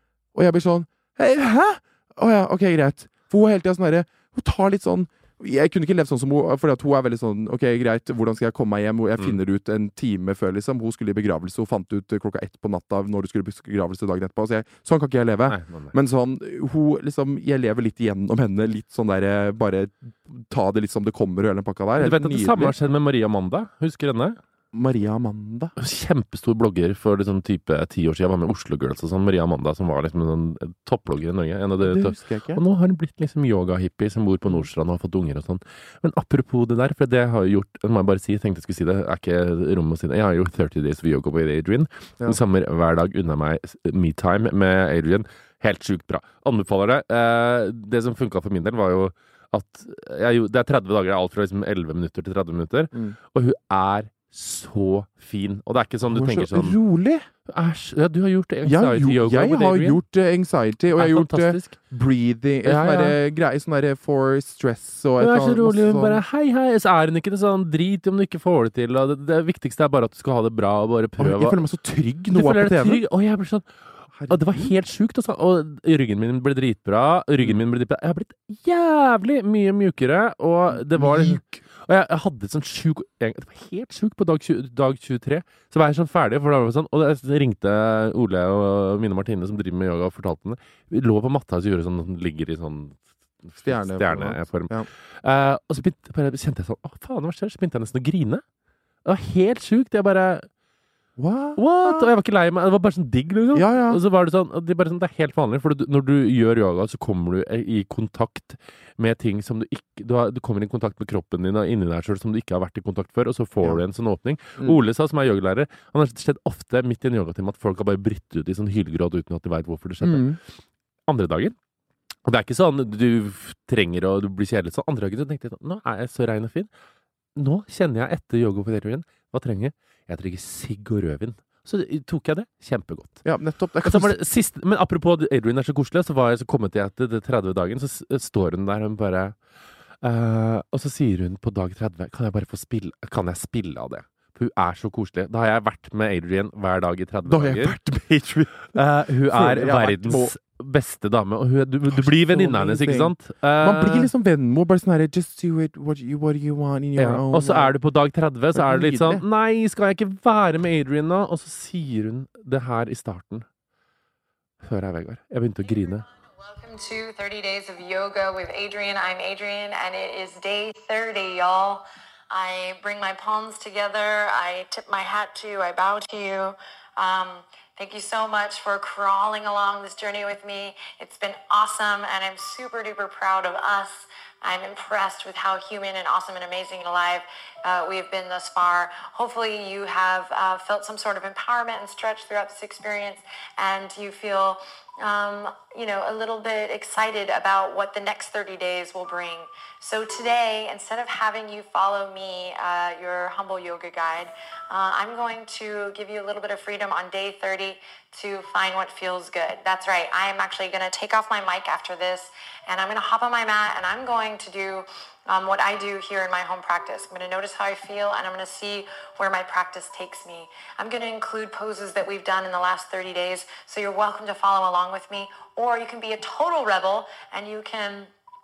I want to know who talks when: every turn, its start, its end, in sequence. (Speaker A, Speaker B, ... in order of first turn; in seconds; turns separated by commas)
Speaker A: 0.3-22.8, Speaker B: 15.5-15.9, Speaker B: 22.0-24.4, Speaker A: 24.7-25.8, Speaker B: 25.8-56.8, Speaker A: 31.8-32.6, Speaker A: 56.1-57.3, Speaker B: 57.5-60.0, Speaker A: 58.6-66.2, Speaker B: 61.0-61.8, Speaker B: 62.6-63.2, Speaker B: 65.2-71.6, Speaker A: 71.2-73.0, Speaker B: 72.3-73.7, Speaker A: 74.2-74.7, Speaker B: 74.3-98.4, Speaker A: 80.7-81.6, Speaker A: 93.6-94.9, Speaker B: 99.0-100.5, Speaker A: 101.2-102.1, Speaker B: 101.6-120.3, Speaker A: 103.5-104.0, Speaker A: 120.0-120.4, Speaker B: 121.1-121.6, Speaker B: 122.2-126.7, Speaker B: 127.4-133.2, Speaker A: 133.2-134.2, Speaker B: 133.8-139.4, Speaker B: 140.0-147.8, Speaker A: 147.3-150.3, Speaker B: 148.7-154.1, Speaker A: 151.9-157.7, Speaker B: 157.0-163.5, Speaker A: 158.6-159.2, Speaker B: 164.6-166.1, Speaker C: 165.8-228.1